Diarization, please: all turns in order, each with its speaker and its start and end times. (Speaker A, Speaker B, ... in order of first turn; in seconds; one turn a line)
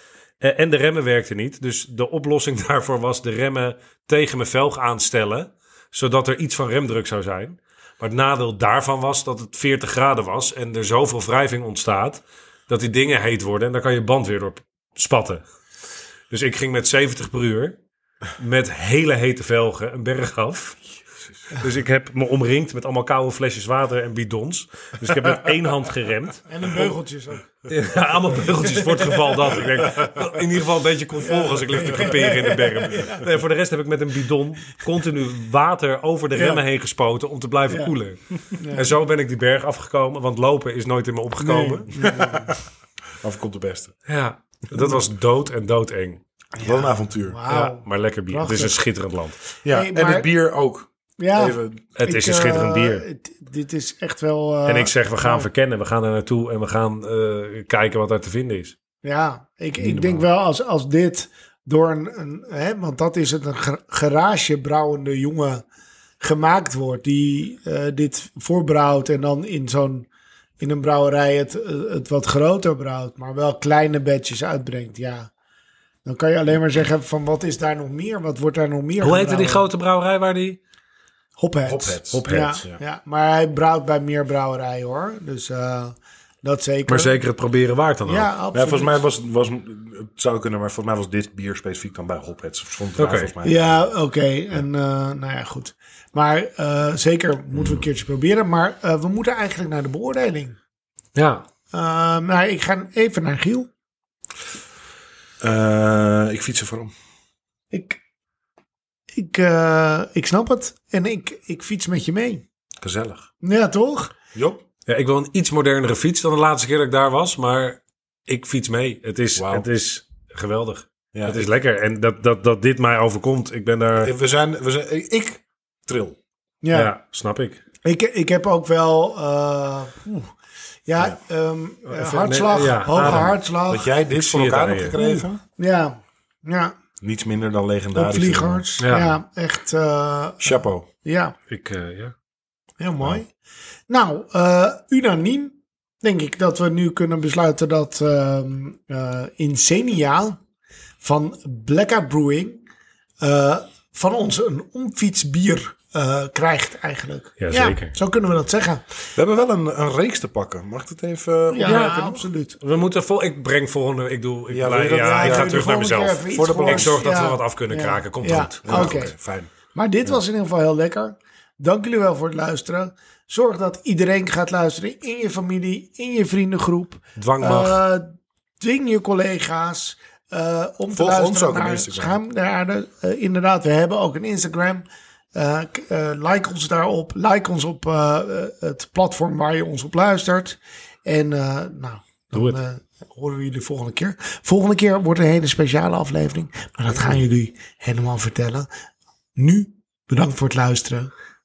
Speaker A: 0.4-15.4
Speaker A: 16.3-17.8
Speaker A: 18.4-20.9
Speaker A: 21.5-26.5
Speaker B: 26.5-27.5
Speaker A: 27.7-42.0
Speaker B: 28.8-29.5
Speaker B: 31.2-33.2
Speaker B: 36.3-36.6
Speaker B: 38.6-39.0
Speaker B: 41.4-42.5
Speaker C: 42.0-42.6
Speaker C: 43.2-44.0
Speaker A: 44.1-46.2
Speaker B: 46.6-48.8
Speaker C: 46.6-47.4
Speaker A: 47.5-49.4
Speaker C: 49.6-51.9
Speaker B: 49.7-50.3
Speaker B: 51.2-55.5
Speaker A: 52.0-53.0
Speaker A: 54.7-58.8
Speaker B: 59.0-65.6
Speaker C: 59.9-60.1
Speaker B: 66.2-70.1
Speaker B: 70.6-75.3
Speaker B: 76.0-79.6
Speaker A: 79.0-80.6
Speaker B: 81.4-87.2
Speaker C: 81.7-82.8
Speaker A: 82.1-82.7
Speaker A: 86.9-88.3
Speaker B: 88.1-89.0
Speaker C: 88.5-93.8
Speaker A: 93.0-93.3
Speaker B: 93.4-100.6
Speaker A: 101.2-101.4
Speaker B: 101.7-103.7
Speaker C: 105.4-106.9
Speaker B: 107.7-108.0
Speaker B: 109.1-112.5
Speaker C: 112.8-113.3
Speaker B: 113.4-114.1
Speaker C: 114.3-114.6
Speaker A: 114.9-124.1
Speaker C: 119.4-119.7
Speaker C: 121.1-121.5
Speaker C: 124.0-126.2
Speaker B: 126.6-126.9
Speaker A: 126.7-127.6
Speaker B: 127.8-130.3
Speaker B: 130.9-133.9
Speaker A: 131.9-133.3
Speaker C: 133.0-135.4
Speaker A: 134.1-135.0
Speaker B: 134.9-136.8
Speaker C: 137.0-138.7
Speaker B: 137.9-141.4
Speaker A: 138.8-139.2
Speaker C: 140.4-140.9
Speaker A: 141.5-142.1
Speaker B: 142.8-143.3
Speaker B: 143.9-150.4
Speaker B: 151.0-152.6
Speaker B: 153.2-158.8
Speaker A: 157.4-157.9
Speaker C: 159.2-162.2
Speaker B: 161.5-162.6
Speaker A: 161.6-169.0
Speaker C: 164.5-165.7
Speaker B: 165.0-169.2
Speaker C: 166.3-167.2
Speaker C: 168.7-169.5
Speaker B: 169.7-198.7
Speaker A: 177.2-177.8
Speaker C: 180.9-182.2
Speaker B: 199.4-201.1